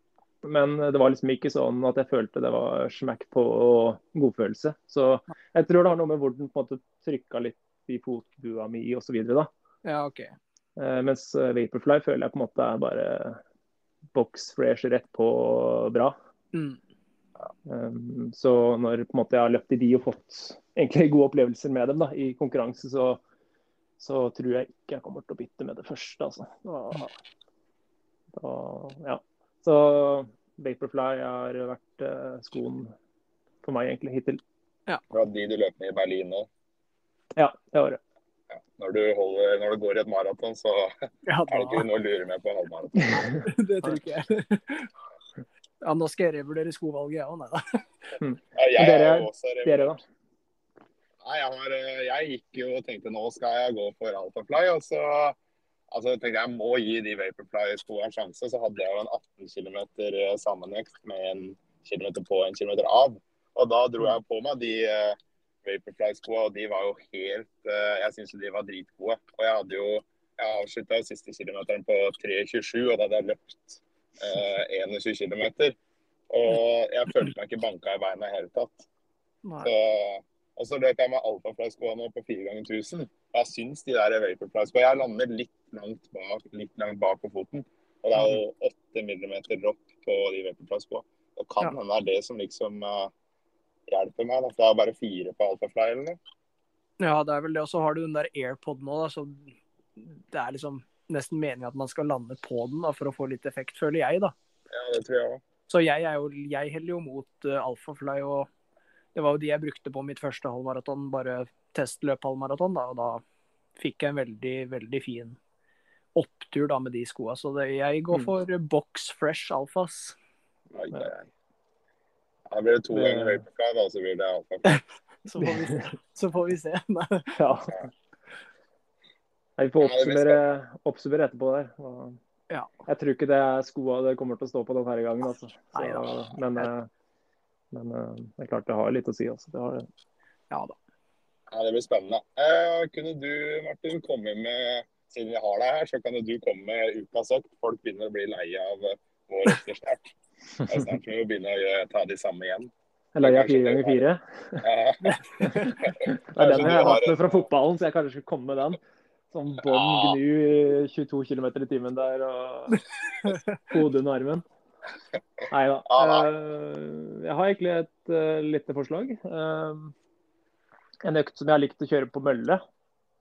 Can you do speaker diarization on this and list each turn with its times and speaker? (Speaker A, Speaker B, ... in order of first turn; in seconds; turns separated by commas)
Speaker A: 0.4-9.5, Speaker B: 9.8-10.3, Speaker A: 10.8-13.4, Speaker A: 14.1-16.1, Speaker B: 16.5-16.8, Speaker A: 17.7-23.2, Speaker A: 24.0-27.1, Speaker A: 28.4-32.9, Speaker A: 33.6-34.4, Speaker C: 35.1-36.5, Speaker A: 37.4-38.0, Speaker C: 38.5-43.3, Speaker B: 41.3-41.9, Speaker B: 43.3-44.9, Speaker B: 45.8-47.8, Speaker A: 48.2-50.0, Speaker C: 48.5-49.9, Speaker C: 51.2-55.4, Speaker C: 55.9-75.8, Speaker C: 76.3-78.9, Speaker B: 79.4-79.7, Speaker C: 79.6-93.1, Speaker B: 88.2-88.4, Speaker C: 93.9-96.2, Speaker B: 97.0-104.3, Speaker C: 104.7-105.4, Speaker B: 105.7-108.5, Speaker B: 109.1-113.2, Speaker B: 113.8-115.4, Speaker B: 116.1-120.2, Speaker C: 120.7-121.3, Speaker C: 122.5-124.8, Speaker A: 122.9-123.4, Speaker B: 124.7-127.4, Speaker A: 127.3-127.9, Speaker A: 129.6-132.2, Speaker C: 129.8-130.4, Speaker A: 132.9-136.9, Speaker B: 135.7-136.7, Speaker A: 137.7-139.9, Speaker B: 140.5-140.8, Speaker C: 141.5-150.1, Speaker C: 150.7-154.0, Speaker A: 153.1-154.6, Speaker C: 154.6-157.4, Speaker A: 155.4-164.4, Speaker C: 159.6-160.2, Speaker A: 165.5-169.9, Speaker C: 165.9-166.3, Speaker A: 171.0-172.6